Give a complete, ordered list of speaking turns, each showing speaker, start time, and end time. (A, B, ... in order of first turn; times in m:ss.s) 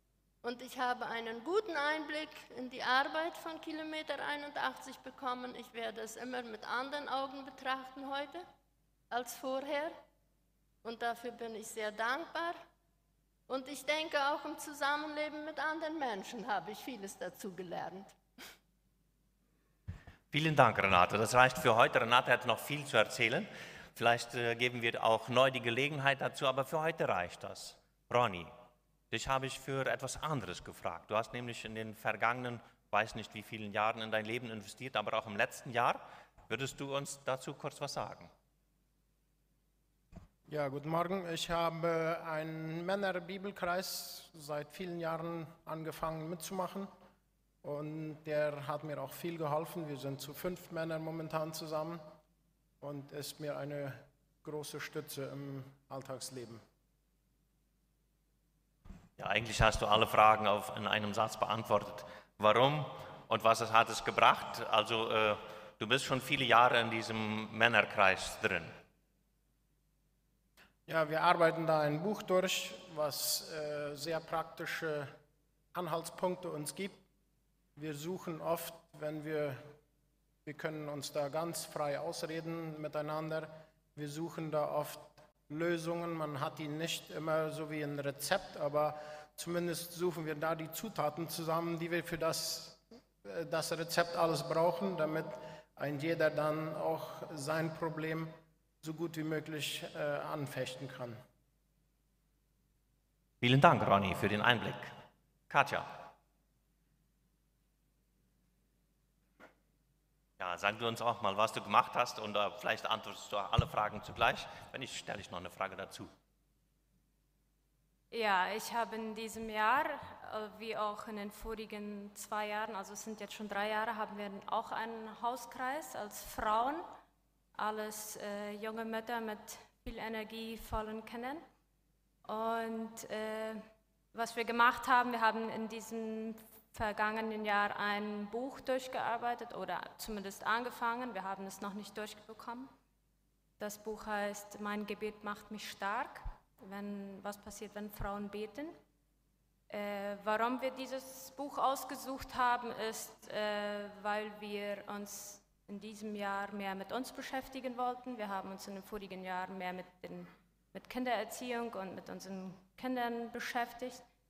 0:00.4-0:08.4 A
0:09.1-0:10.0 A
0:10.8-0:12.6 A
0:13.5-0:18.2 A
0:20.3-0:28.5 B
0:29.1-0:38.3 B
0:40.5-0:46.9 C
0:47.6-0:52.0 C
0:52.8-0:56.6 C
0:59.2-1:08.7 B
1:10.9-1:15.1 C
1:15.7-1:17.0 C
1:17.8-1:19.6 C
1:20.4-1:41.2 C
1:43.4-1:44.9 B
1:45.5-1:46.1 B
1:50.4-1:56.1 B
1:58.1-2:06.9 D
2:07.6-2:11.4 D
2:12.2-2:22.7 D
2:23.6-2:28.8 D
2:29.7-2:44.0 D